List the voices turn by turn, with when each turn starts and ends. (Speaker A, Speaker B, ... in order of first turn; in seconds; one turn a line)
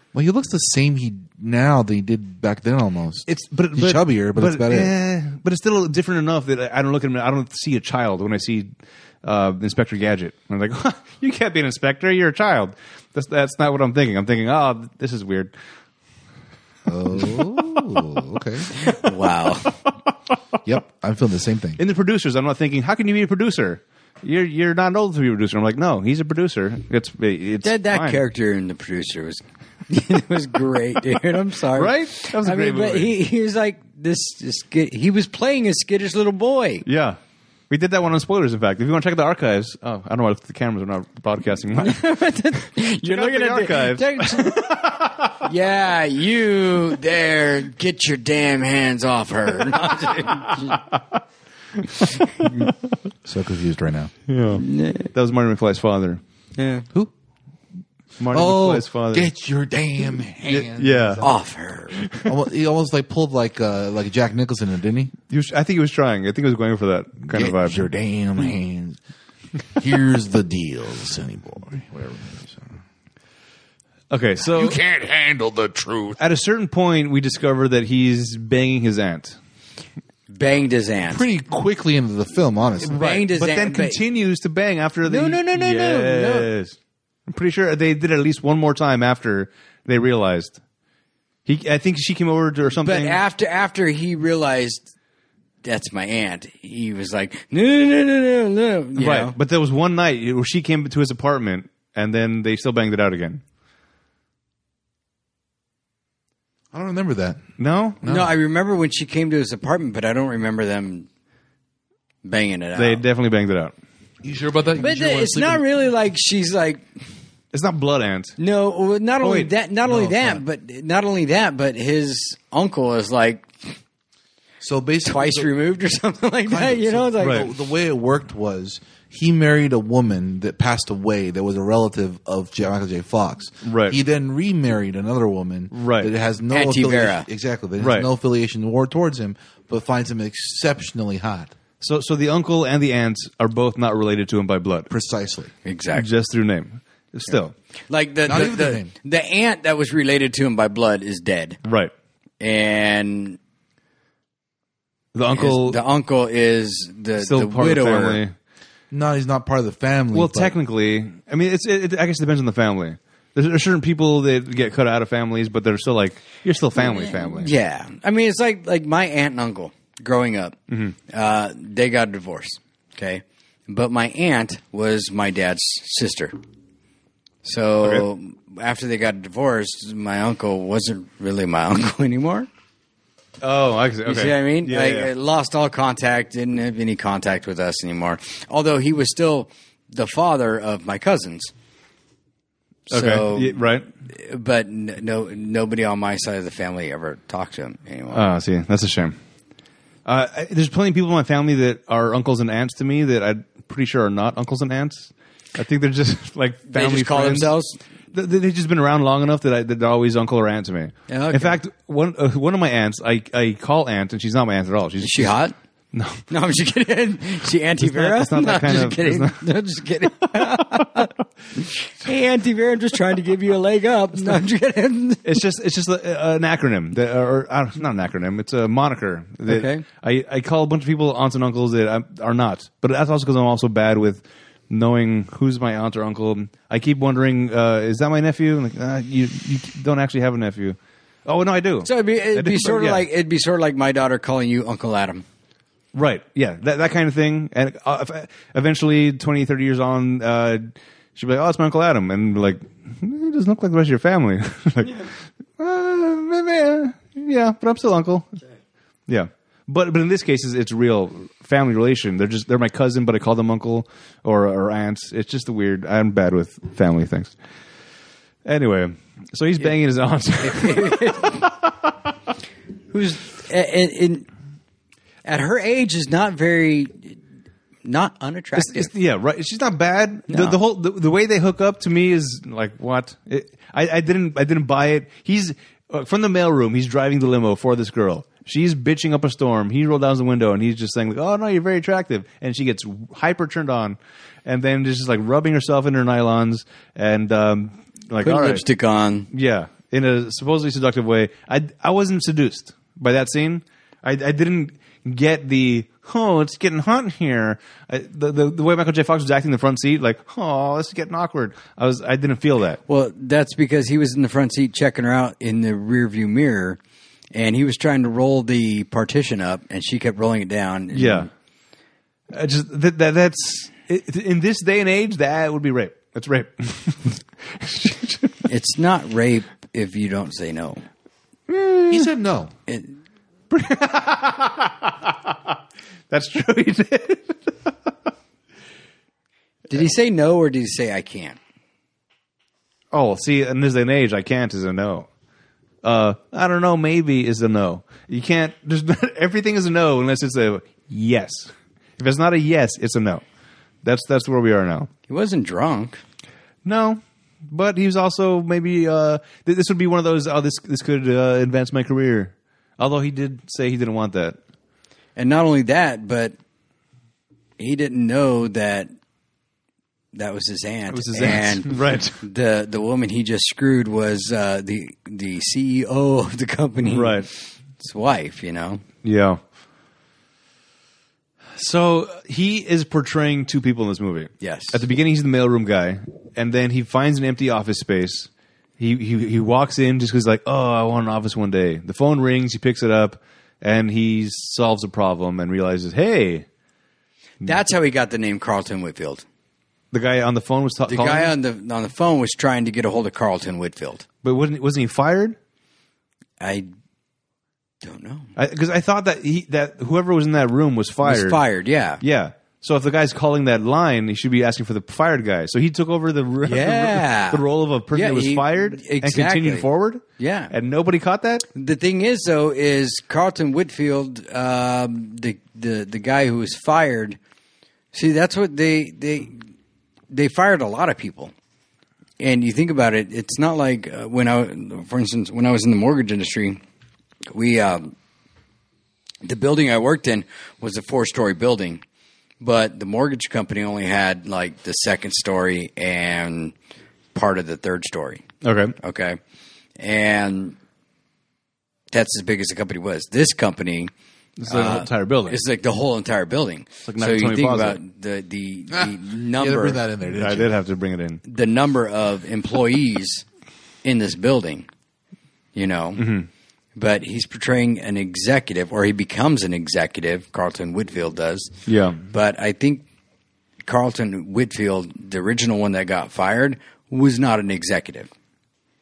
Speaker A: 0.1-4.9
Speaker B: 3.3-8.7
Speaker B: 9.2-15.5
Speaker A: 16.9-18.7
Speaker C: 18.7-19.8
Speaker A: 20.6-21.8
Speaker B: 21.8-28.2
Speaker C: 27.6-36.9
Speaker B: 31.7-33.1
Speaker B: 36.9-37.2
Speaker B: 37.7-42.0
Speaker C: 41.8-50.8
Speaker B: 42.8-45.4
Speaker B: 50.6-51.0
Speaker B: 51.8-52.7
Speaker A: 53.2-54.1
Speaker B: 54.3-56.2
Speaker C: 54.6-55.1
Speaker C: 56.6-56.9
Speaker B: 58.2-59.3
Speaker A: 58.3-61.4
Speaker B: 60.4-61.3
Speaker C: 61.2-62.0
Speaker B: 61.9-62.4
Speaker A: 62.2-65.1
Speaker B: 65.3-67.8
Speaker A: 67.3-69.0
Speaker A: 69.8-72.8
Speaker B: 74.1-74.8
Speaker A: 74.4-76.2
Speaker B: 76.2-79.4
Speaker C: 80.3-81.2
Speaker A: 81.1-83.0
Speaker C: 82.8-84.0
Speaker B: 82.8-86.8
Speaker C: 85.1-86.5
Speaker B: 87.3-90.6
Speaker B: 91.5-93.2
Speaker C: 92.8-94.9
Speaker C: 95.6-99.3
Speaker B: 99.0-103.4
Speaker A: 106.7-107.4
Speaker B: 107.6-108.0
Speaker A: 108.0-108.3
Speaker C: 108.0-111.1
Speaker C: 112.2-113.0
Speaker B: 112.8-113.8
Speaker A: 114.2-115.6
Speaker C: 114.8-116.8
Speaker B: 117.5-118.4
Speaker C: 118.4-123.7
Speaker B: 119.2-119.5
Speaker A: 119.9-120.4
Speaker A: 124.6-125.5
Speaker C: 125.0-127.5
Speaker A: 126.5-141.5
Speaker B: 127.2-127.5
Speaker B: 133.6-134.0
Speaker B: 135.7-136.1
Speaker C: 136.5-137.3
Speaker B: 137.8-138.1
Speaker B: 141.8-144.9
Speaker A: 144.9-145.5
Speaker C: 145.7-146.1
Speaker B: 145.9-147.5
Speaker C: 147.9-151.6
Speaker A: 148.3-148.9
Speaker B: 151.6-151.9
Speaker C: 152.4-153.4
Speaker B: 155.1-155.8
Speaker C: 155.3-158.2
Speaker B: 157.2-158.3
Speaker A: 158.9-160.6
Speaker B: 160.1-167.5
Speaker C: 166.8-176.3
Speaker B: 170.7-171.0
Speaker C: 177.4-182.5
Speaker B: 183.4-185.1
Speaker C: 184.1-191.5
Speaker C: 192.9-198.3
Speaker B: 192.9-193.9
Speaker B: 198.1-199.2
Speaker B: 200.1-207.6
Speaker C: 206.7-207.8
Speaker B: 208.1-215.4
Speaker C: 211.1-211.6
Speaker C: 215.0-215.6
Speaker B: 215.9-216.2
Speaker C: 216.3-225.4
Speaker B: 217.8-219.5
Speaker B: 220.3-220.8
Speaker B: 225.2-243.1
Speaker C: 229.5-229.8
Speaker C: 241.8-245.2
Speaker B: 245.9-258.3
Speaker B: 259.1-267.3
Speaker B: 268.4-271.9
Speaker C: 270.4-271.5
Speaker C: 272.9-274.3
Speaker C: 275.2-277.2
Speaker C: 277.8-278.9
Speaker B: 278.6-298.6
Speaker C: 280.3-280.6
Speaker C: 298.2-299.3
Speaker B: 299.3-312.8
Speaker C: 312.9-316.8
Speaker C: 317.3-321.3
Speaker B: 320.9-321.3
Speaker B: 322.3-328.4
Speaker C: 328.4-330.8
Speaker B: 331.5-332.1
Speaker A: 331.9-332.5
Speaker C: 332.7-332.9
Speaker B: 333.5-335.5
Speaker B: 336.1-337.8
Speaker C: 339.7-341.4
Speaker B: 342.9-345.1
Speaker B: 345.8-353.2
Speaker B: 353.8-354.9
Speaker C: 355.1-356.0
Speaker B: 356.6-364.4
Speaker C: 365.2-366.4
Speaker C: 367.6-368.9
Speaker C: 370.1-378.8
Speaker B: 370.9-372.2
Speaker B: 376.9-377.3
Speaker B: 379.0-379.4
Speaker B: 381.6-396.5
Speaker C: 384.4-384.8
Speaker C: 397.4-399.2
Speaker B: 399.9-401.3
Speaker C: 400.9-404.1
Speaker B: 404.2-405.4
Speaker C: 406.4-406.7
Speaker C: 407.8-408.3
Speaker B: 408.4-411.4
Speaker C: 411.0-412.0
Speaker B: 412.0-421.5
Speaker C: 416.4-419.7
Speaker C: 420.2-420.5
Speaker C: 421.5-427.2
Speaker C: 427.9-429.5
Speaker C: 430.1-431.3
Speaker C: 432.2-436.6
Speaker C: 437.3-437.9
Speaker C: 439.2-441.8
Speaker C: 442.4-446.6
Speaker C: 447.1-448.2
Speaker B: 448.4-448.8
Speaker C: 448.8-449.2
Speaker C: 449.8-450.6
Speaker C: 451.9-453.9
Speaker B: 454.4-455.4
Speaker C: 454.5-459.8
Speaker B: 456.9-457.8
Speaker A: 458.7-460.5
Speaker B: 460.1-461.2
Speaker C: 461.2-463.2
Speaker C: 463.8-464.7
Speaker C: 465.6-466.1
Speaker B: 466.0-466.3
Speaker C: 466.8-471.5
Speaker B: 471.7-472.0
Speaker C: 472.1-472.9
Speaker C: 473.7-478.1